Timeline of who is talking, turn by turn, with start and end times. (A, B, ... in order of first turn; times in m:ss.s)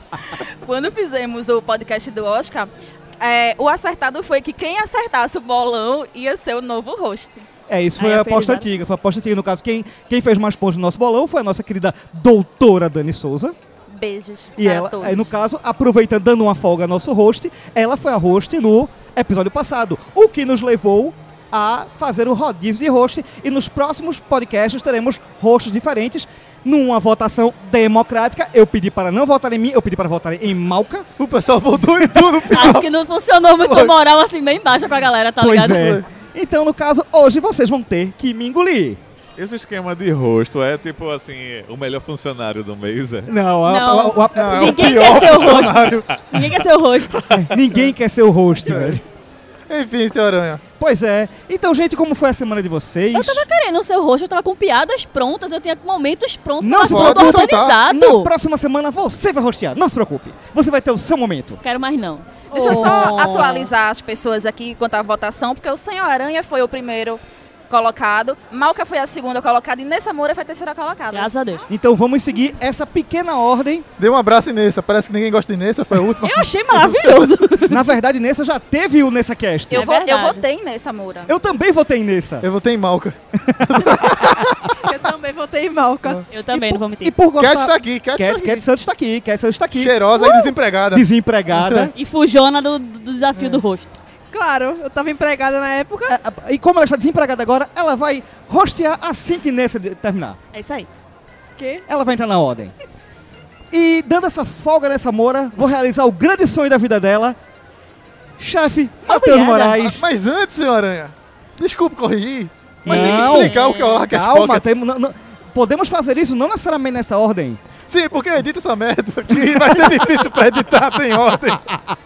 0:00.2-0:07.4 A
0:07.7-0:13.6 B
0:08.0-0:08.7 C
0:13.9-0:15.3 A
0:14.6-0:31.1 B
0:31.2-0:32.9 D
0:32.5-0:36.0 E
0:33.6-0:33.9 D
0:35.4-0:39.0 B
0:39.4-0:43.3 F
0:43.3-0:45.4 B
0:43.6-0:47.3 C
0:44.3-0:46.2 D
0:47.3-0:49.0 B
0:48.6-0:49.0 D
0:49.7-0:50.6 D
0:50.8-0:53.4 B
0:53.1-0:58.3 E
0:56.6-1:01.6 B
0:56.8-0:57.8 D
1:01.6-1:02.4 E
1:02.5-1:03.7 C
1:02.5-1:11.3 A
1:11.1-1:11.7 C
1:11.7-1:13.8 B
1:14.0-1:16.4 D
1:16.2-1:17.8 C
1:17.7-1:19.8 B
1:19.7-1:21.3 A
1:19.7-1:20.4 C
1:21.3-1:22.5 B
1:22.4-1:24.8 D
1:23.4-1:24.3 B
1:24.8-1:26.3 G
1:26.3-1:27.1 C
1:26.5-1:31.9 B
1:27.3-1:28.6 D
1:29.7-1:31.9 D
1:31.9-1:33.9 C
1:33.3-1:33.6 D
1:34.3-1:36.2 G
1:36.1-1:40.4 B
1:40.5-1:40.9 C
1:41.6-1:41.8 G
1:41.9-1:42.7 B
1:43.7-1:47.4 B
1:48.4-1:50.0 B
1:49.0-1:49.7 C
1:49.7-1:54.6 D
1:52.8-1:53.8 C
1:52.8-1:57.6 B
1:53.3-1:53.9 E
1:57.9-2:01.7 D